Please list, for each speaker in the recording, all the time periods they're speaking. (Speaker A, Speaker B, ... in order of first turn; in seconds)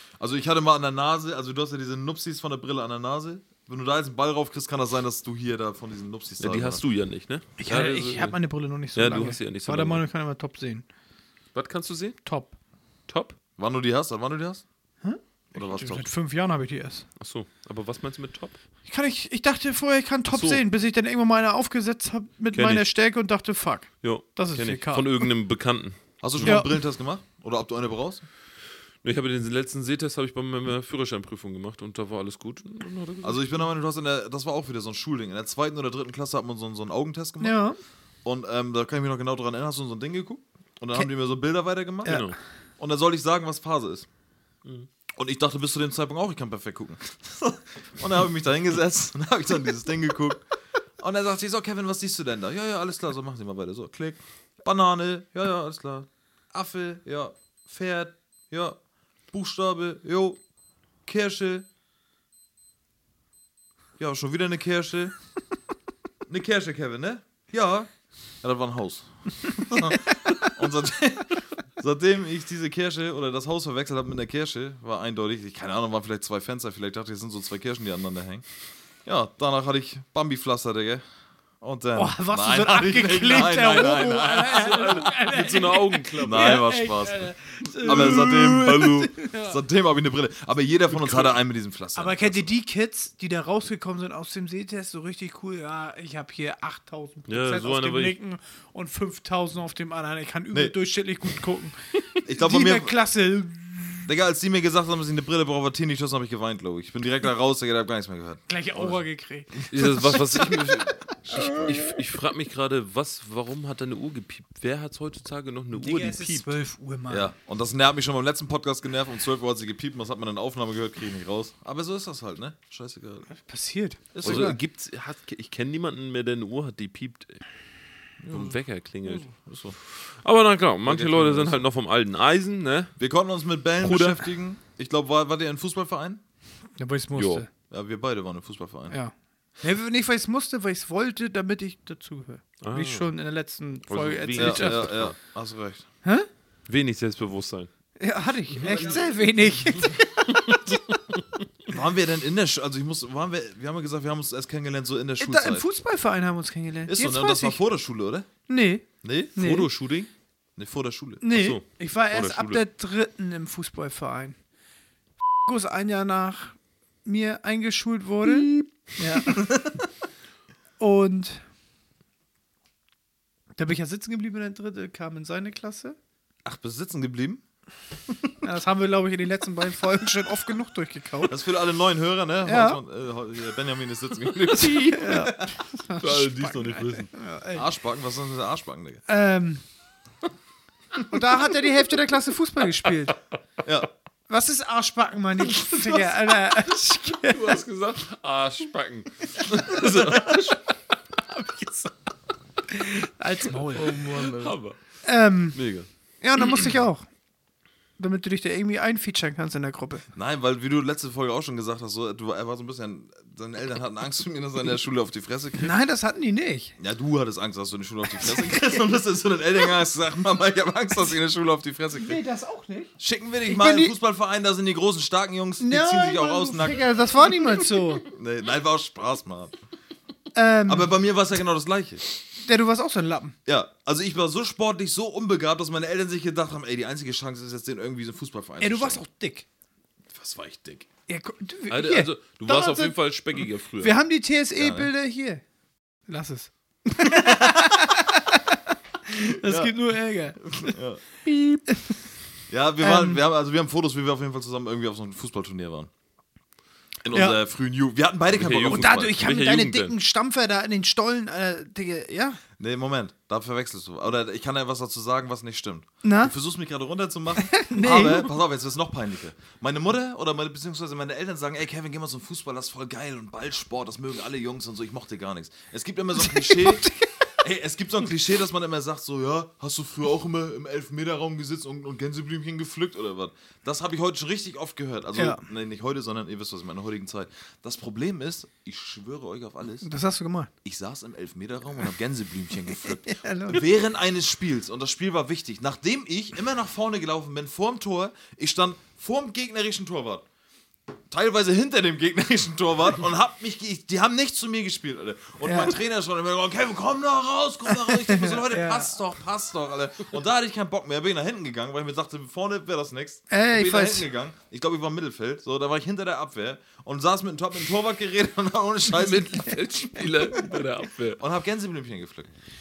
Speaker A: 0.2-6.8, 13.6-14.6, 15.5-16.1, 26.2-28.2, 33.2-37.6, 38.2-42.2, 42.8-44.1, 45.1-50.5, 51.0-58.8, 59.3-60.4, 61.0-61.7, 64.0-65.1, 66.3-67.9, 68.4-78.4, 79.0-81.0, 81.6-85.0, 86.2-87.3, 87.8-92.5, 102.2-102.9, 104.0-109.0, 109.5-110.2, 111.3-111.7, 117.1-123.3, 124.1-124.6, 128.2-128.5, 129.2-129.7, 130.8-131.7, 133.0-136.2, 137.7-138.9, 144.4-145.8, 148.6-149.2, 151.7-155.7, 156.9-158.3, 159.0-159.3, 160.6-161.2, 169.3-169.8, 176.4-177.4, 181.3-185.6, 187.5-189.0, 193.6-193.9, 210.1-215.7, 216.8-222.2, 223.0-226.9, 228.0-229.6, 230.7-232.0, 233.4-239.0, 240.1-240.9, 244.6-244.9, 247.0-247.9, 249.4-249.7, 250.4-251.0, 252.5-255.9, 257.0-259.1, 262.6-289.9, 290.6-300.2, 301.1-319.7, 321.2-322.3
Speaker B: 6.4-8.4, 8.9-10.0, 11.5-12.2, 13.1-13.4, 17.2-18.6, 20.3-20.6, 22.5-22.9, 24.0-26.6, 29.0-33.6, 42.0-42.4, 84.4-86.7, 87.8-88.3, 90.9-91.3, 97.3-98.2, 109.7-116.5, 124.2-127.4, 128.3-132.9, 133.8-134.3, 137.2-137.4, 142.6-143.1, 143.9-145.1, 146.7-147.7, 150.5-151.2, 159.4-160.1, 161.3-162.6, 186.0-187.1, 197.1-200.6, 203.7-204.8, 205.5-205.9, 241.7-244.0, 258.3-259.9, 318.9-321.2
Speaker C: 7.6-10.8, 12.2-12.5, 15.0-17.1, 18.9-25.3, 26.4-26.8, 37.4-37.8, 42.0-42.3, 81.9-89.6, 91.9-104.1, 108.5-111.7, 115.7-117.3, 123.3-124.6, 136.8-137.5, 138.9-145.0, 148.0-150.8, 155.2-157.6, 158.5-159.7, 161.2-164.4, 165.4-169.5, 170.8-171.4, 173.6-176.0, 178.4-181.3, 182.4-182.8, 184.6-187.7, 189.1-189.6, 191.1-193.2, 194.3-197.6, 199.7-200.6, 201.3-201.9, 202.7-205.6, 206.2-207.1, 208.0-210.1, 215.6-216.8, 218.2-218.7, 221.9-222.9, 223.4-223.9, 225.6-228.1, 230.3-230.9, 232.4-233.3, 238.6-239.4, 241.1-243.0, 243.8-245.4, 246.1-250.8, 251.7-252.0, 252.8-253.2, 257.1-257.4, 258.7-262.4, 266.0-266.3, 267.4-268.3, 276.2-277.1, 285.1-285.4, 289.8-290.5, 292.8-293.7, 305.4-305.8, 307.7-308.9, 313.3-314.1